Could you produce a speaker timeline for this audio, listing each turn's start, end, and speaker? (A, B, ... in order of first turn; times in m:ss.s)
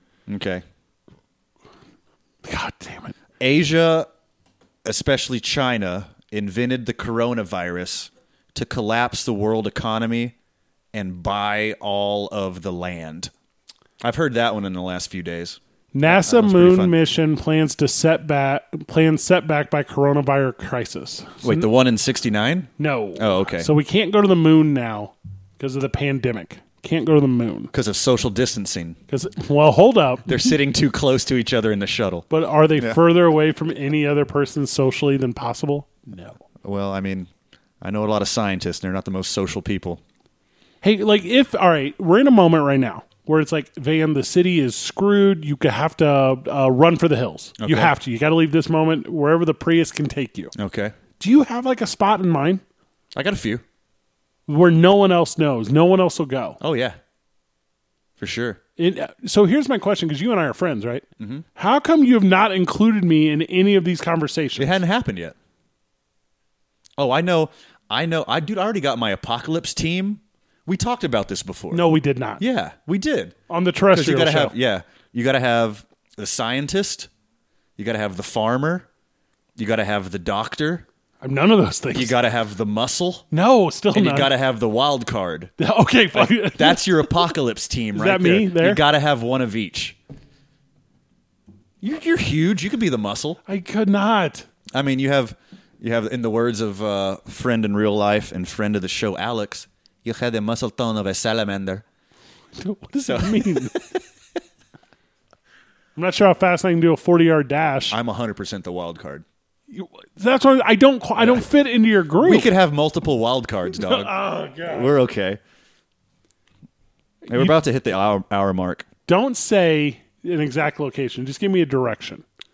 0:00.3-0:00.6 A
0:02.4-0:03.1 B
0:03.4-0:04.1 A
0:04.8-0:10.3 A
0:10.9-0:13.3 A
0:14.0-0:17.0 A
0:15.9-0:21.6 B
0:21.4-0:23.7 A
0:22.8-0:27.7 B
0:27.7-0:29.0 A
0:29.1-0:30.3 B
0:30.2-0:32.2 A
0:32.3-0:36.4 B
0:36.6-0:37.3 A
0:37.8-0:40.0 A
0:40.8-0:50.5 B
0:47.6-0:47.9 A
0:50.6-0:50.9 A
0:51.2-0:52.6 B
0:53.1-0:53.6 A
0:54.5-0:56.6 B
0:56.6-0:57.0 A
0:58.2-0:58.6 A
0:58.8-1:04.8 B
1:01.2-1:01.4 A
1:04.6-1:05.3 A
1:07.0-1:11.8 A
1:11.7-1:12.4 B
1:12.4-1:13.3 A
1:13.5-1:14.5 B
1:13.9-1:17.1 A
1:17.8-1:18.9 A
1:19.6-1:20.8 A
1:21.2-1:22.2 B
1:21.9-1:23.2 A
1:23.3-1:24.3 B
1:23.9-1:25.5 A
1:25.6-1:27.3 B
1:26.1-1:30.0 A
1:27.9-1:28.8 B
1:31.8-1:33.4 A
1:33.4-1:34.5 B
1:34.7-1:41.8 A
1:42.6-1:43.8 B
1:43.1-1:44.0 A
1:46.0-1:48.0 B
1:47.9-1:49.2 A
1:49.7-1:52.5 B
1:51.2-1:51.4 A
1:52.2-1:55.4 A
1:53.8-1:54.9 B
1:57.2-1:57.6 B
1:57.3-1:58.8 A
1:59.1-2:02.2 B